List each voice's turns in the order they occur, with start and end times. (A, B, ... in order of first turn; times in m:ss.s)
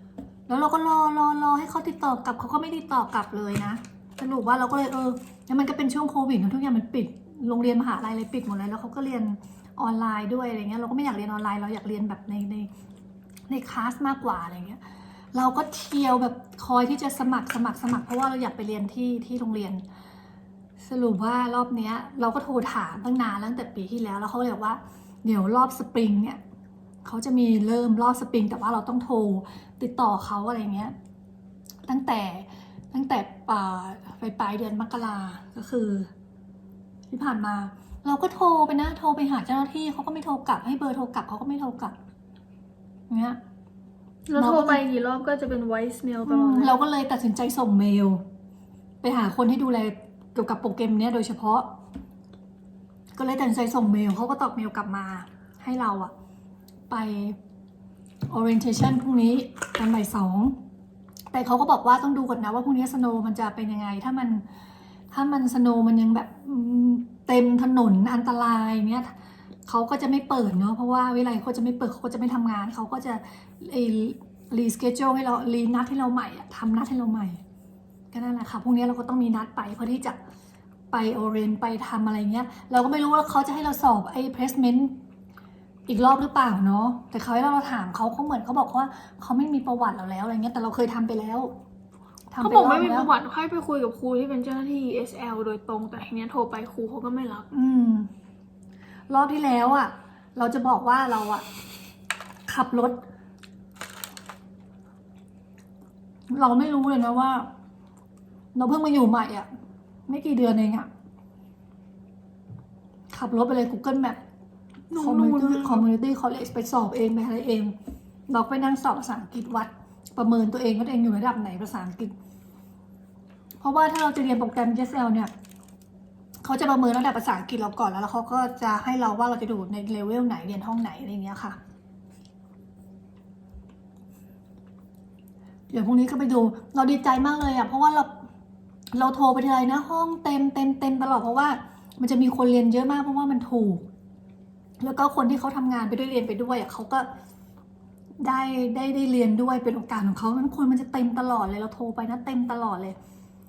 0:00.5-0:12.7 A
0:13.5-0:14.8 A
0:15.3-0:19.8 A
0:20.8-0:26.4 A
0:27.0-0:30.9 A
0:31.9-0:36.1 A
0:37.1-0:41.9 A
0:43.1-0:43.4 A
0:44.3-0:46.8 B
0:44.3-0:44.8 A
0:46.2-0:48.2 A
0:49.0-0:51.7 A
0:53.2-0:56.1 A
0:56.9-0:57.4 A
0:58.3-1:00.6 A
1:01.3-1:04.4 A
1:05.1-1:09.1 A
1:09.7-1:17.4 A
1:18.1-1:20.2 A
1:20.9-1:25.0 A
1:25.9-1:31.5 A
1:32.3-1:33.1 A
1:32.4-1:37.5 B
1:37.5-1:38.1 A
1:39.1-1:41.4 A
1:42.5-1:43.0 A
1:46.3-1:47.5 A
1:48.5-1:49.5 A
1:50.1-1:50.9 A
1:53.1-1:54.2 A
1:54.9-1:55.9 B
1:54.9-1:57.7 A
1:58.3-2:02.1 A
2:03.6-2:05.3 A
2:06.4-2:11.6 A
2:15.7-2:18.1 A
2:18.9-2:23.8 A
2:24.8-2:27.1 A
2:28.2-2:33.0 A